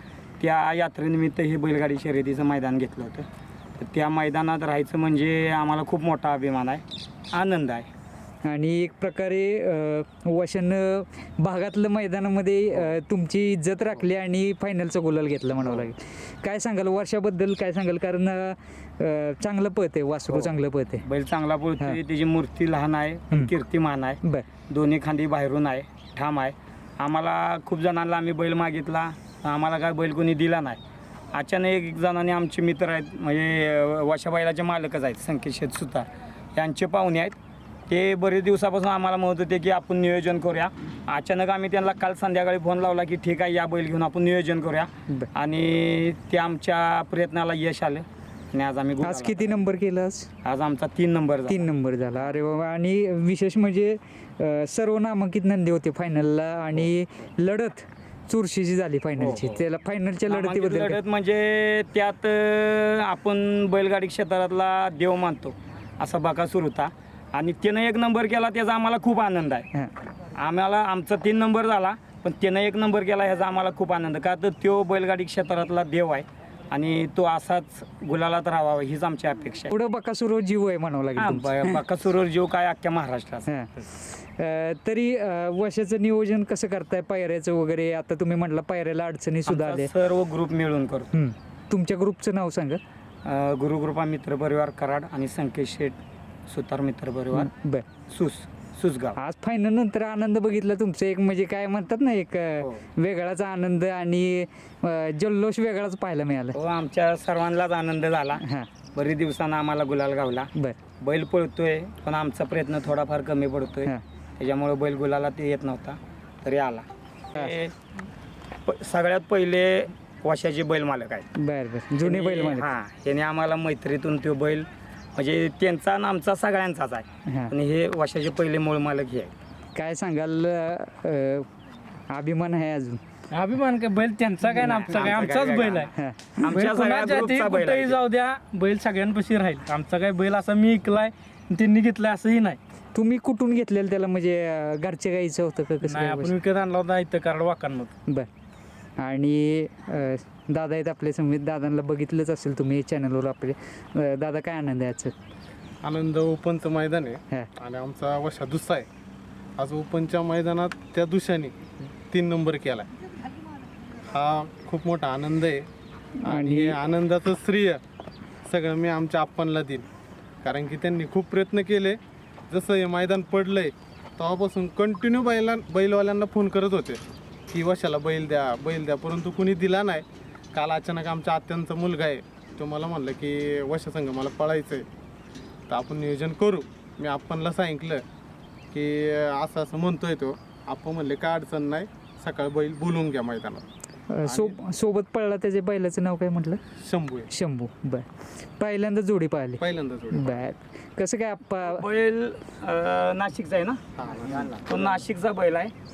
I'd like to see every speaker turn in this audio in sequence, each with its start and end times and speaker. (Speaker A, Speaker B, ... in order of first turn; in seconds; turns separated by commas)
Speaker A: 0.4-3.3, Speaker A: 3.8-7.9, Speaker B: 8.4-21.1, Speaker A: 21.0-30.8, Speaker B: 24.2-24.5, Speaker A: 31.3-37.4, Speaker A: 37.9-49.6, Speaker B: 49.0-50.3, Speaker A: 50.4-51.7, Speaker B: 51.5-61.0, Speaker A: 59.2-59.6, Speaker A: 60.3-69.7, Speaker A: 70.3-79.7, Speaker B: 79.7-81.8, Speaker A: 81.2-83.5, Speaker B: 83.5-89.9, Speaker A: 89.5-91.1, Speaker B: 91.1-92.8, Speaker A: 93.2-96.0, Speaker A: 96.5-97.5, Speaker B: 97.3-97.9, Speaker A: 98.1-99.2, Speaker B: 99.2-106.6, Speaker A: 106.5-108.4, Speaker B: 108.4-108.7, Speaker A: 109.0-117.8, Speaker A: 118.7-121.3, Speaker B: 121.3-122.7, Speaker A: 122.0-129.3, Speaker B: 127.3-127.5, Speaker B: 129.8-131.5, Speaker B: 132.1-133.0, Speaker C: 133.3-135.9, Speaker A: 134.5-138.0, Speaker B: 135.9-136.5, Speaker C: 136.4-142.6, Speaker B: 142.9-146.3, Speaker C: 145.8-147.9, Speaker B: 149.0-155.1, Speaker D: 155.8-158.9, Speaker D: 159.6-161.6, Speaker D: 162.1-162.9, Speaker D: 164.0-165.7, Speaker B: 166.2-166.8, Speaker D: 166.2-167.8, Speaker D: 168.4-169.9, Speaker D: 170.4-172.0, Speaker D: 172.5-177.0, Speaker D: 177.5-184.9, Speaker D: 185.7-188.0, Speaker D: 188.7-193.7, Speaker B: 194.1-196.6, Speaker D: 194.2-194.6, Speaker D: 196.8-197.3, Speaker B: 197.3-201.8, Speaker D: 199.6-200.4, Speaker A: 201.6-203.8, Speaker D: 204.0-204.6, Speaker A: 204.4-205.7